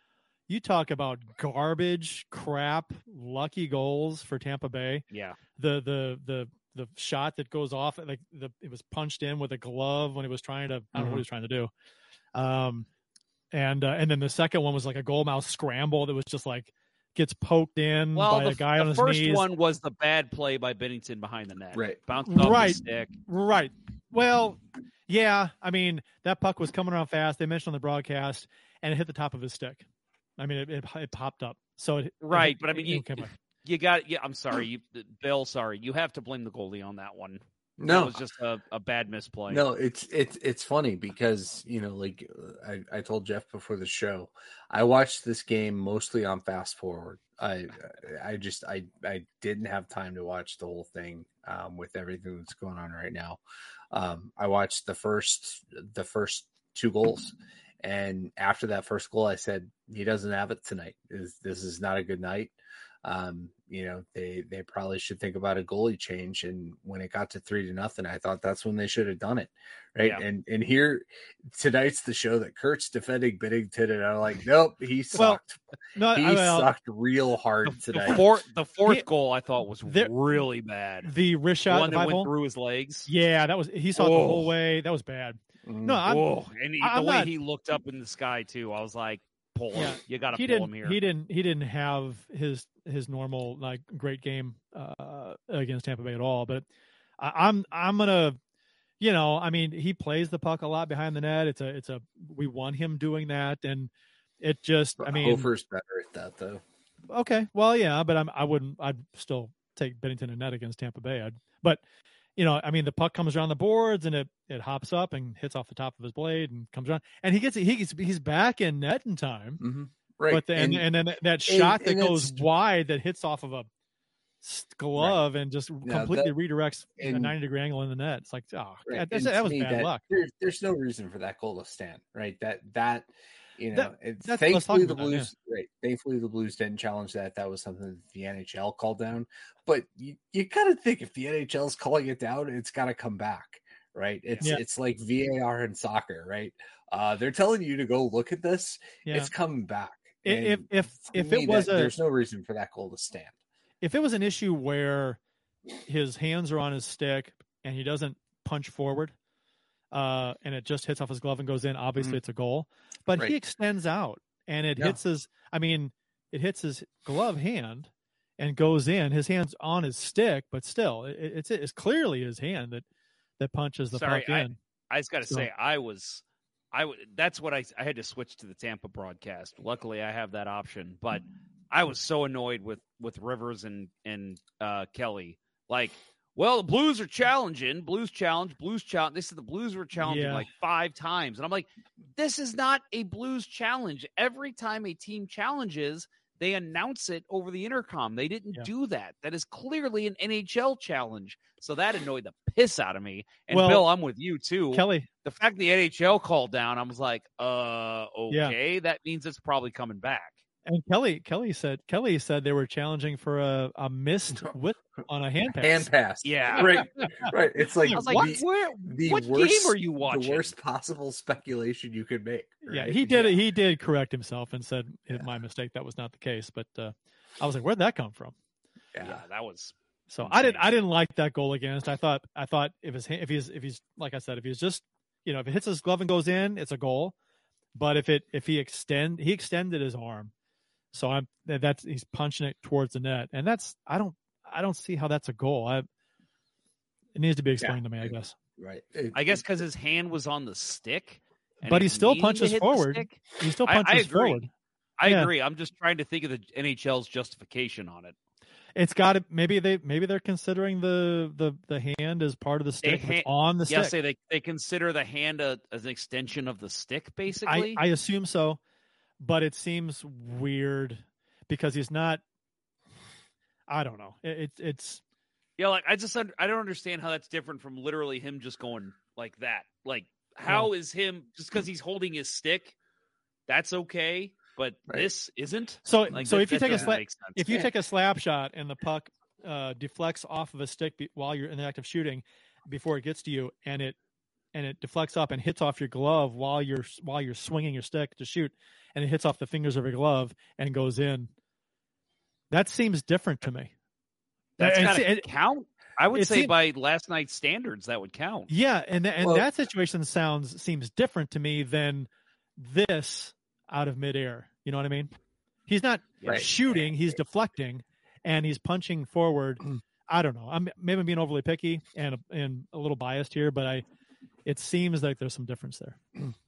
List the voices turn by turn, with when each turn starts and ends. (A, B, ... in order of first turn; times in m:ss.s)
0:00.5-0:05.0 A
0:05.1-0:05.4 B
0:05.6-0:11.7 A
0:10.9-0:11.2 C
0:12.4-0:12.9 A
0:13.5-0:19.4 A
0:18.2-0:23.1 B
0:22.3-0:29.9 A
0:30.4-0:33.3 A
0:32.2-0:39.6 B
0:37.8-0:38.2 C
0:39.5-0:53.4 C
0:53.9-1:15.6 C
1:16.0-1:16.7 A
1:16.1-1:18.3 C
1:18.0-1:21.1 B
1:19.9-1:20.1 A
1:21.0-1:22.3 A
1:21.7-1:23.1 B
1:23.1-1:26.2 A
1:24.0-1:24.5 B
1:25.6-1:26.0 C
1:26.1-1:31.0 B
1:26.8-1:27.3 A
1:29.7-1:36.7 A
1:37.2-1:38.4 A
1:39.0-1:45.5 A
1:45.0-1:46.6 C
1:47.1-1:51.8 A
1:52.4-1:59.6 A
1:59.6-2:00.9 C
2:00.3-2:03.7 A
2:01.5-2:02.4 C
2:04.4-2:10.0 A
2:05.8-2:06.4 C
2:07.0-2:07.4 C
2:08.9-2:33.4 C
2:13.7-2:15.3 A
2:29.0-2:29.3 A
2:30.2-2:32.0 A
2:33.8-2:35.2 A
2:35.9-2:39.1 A
2:39.9-2:52.8 A
2:53.4-2:54.6 A
2:53.9-3:30.4 B
3:10.0-3:10.5 A
3:23.5-3:23.9 A
3:24.7-3:25.1 A
3:28.3-3:28.6 A
3:30.7-3:35.9 A
3:35.6-3:43.2 C
3:36.2-3:37.1 B
3:37.9-3:38.2 A
3:37.9-3:40.5 B
3:42.6-3:48.4 A
3:43.0-3:43.3 B
3:48.9-3:49.2 C
3:49.0-3:50.7 B
3:50.1-3:57.2 A
3:57.7-4:00.3 A
4:00.9-4:05.9 A
4:07.2-4:08.4 A
4:07.6-4:09.4 C
4:09.1-4:14.5 B
4:11.7-4:14.5 A
4:15.0-4:18.2 B
4:15.1-4:15.3 A
4:18.8-4:24.0 A
4:22.8-4:27.8 B
4:27.4-4:28.6 A
4:29.2-4:32.2 A
4:33.7-4:35.0 A
4:35.6-4:42.7 B
4:43.5-4:47.7 B
4:45.8-4:54.0 A
4:46.7-4:47.0 C
4:54.5-5:01.3 A
5:02.5-5:03.7 A
5:04.6-5:08.5 B
5:04.6-5:05.3 A
5:06.1-5:06.5 A
5:08.5-5:15.1 A
5:09.2-5:09.5 C
5:15.7-5:23.8 A
5:16.2-5:16.5 B
5:24.4-5:26.0 A